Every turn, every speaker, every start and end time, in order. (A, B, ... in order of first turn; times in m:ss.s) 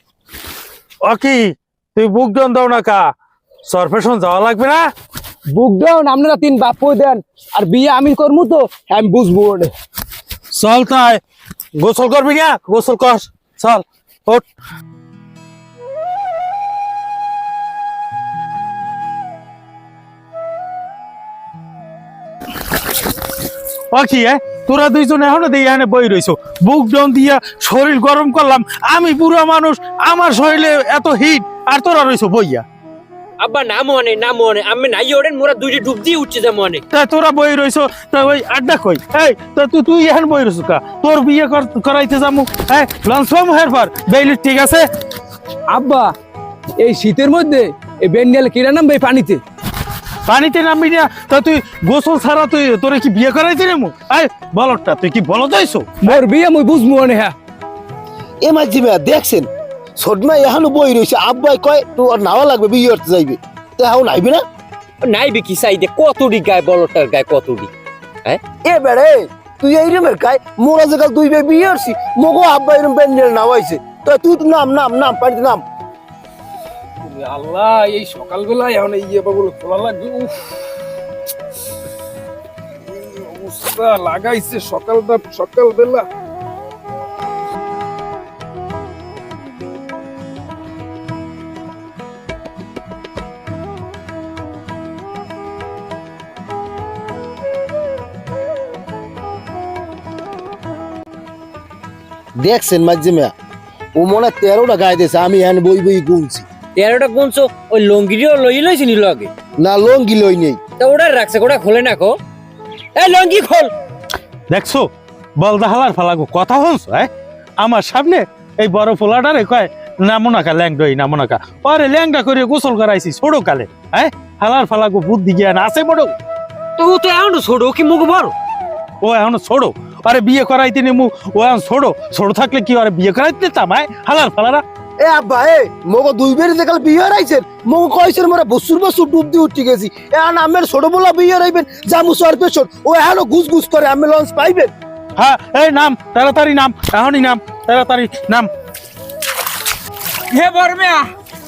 0:01.0-0:03.1 A
0:03.7-0:04.9 A
0:05.5-0:09.7 B
0:10.5-0:11.2 A
0:11.8-0:14.4 A
0:23.9-0:32.6 A
0:33.4-0:36.8 C
0:36.9-0:44.9 A
0:45.7-0:46.1 B
0:46.8-0:49.4 B
0:50.3-0:56.1 A
0:56.0-0:57.3 B
0:58.4-1:04.4 D
1:05.0-1:07.7 C
1:08.6-1:15.6 D
1:17.0-1:20.4 B
1:22.8-1:26.1 B
1:42.4-1:43.3 D
1:44.0-1:46.5 D
1:46.8-1:49.3 C
1:49.6-1:50.6 D
1:50.8-1:52.2 C
1:52.9-1:53.7 C
1:54.5-1:54.9 A
1:55.4-2:06.2 A
2:06.8-2:08.3 C
2:09.0-2:14.6 A
2:15.0-2:24.7 D
2:25.2-2:28.5 A
2:30.3-2:31.1 C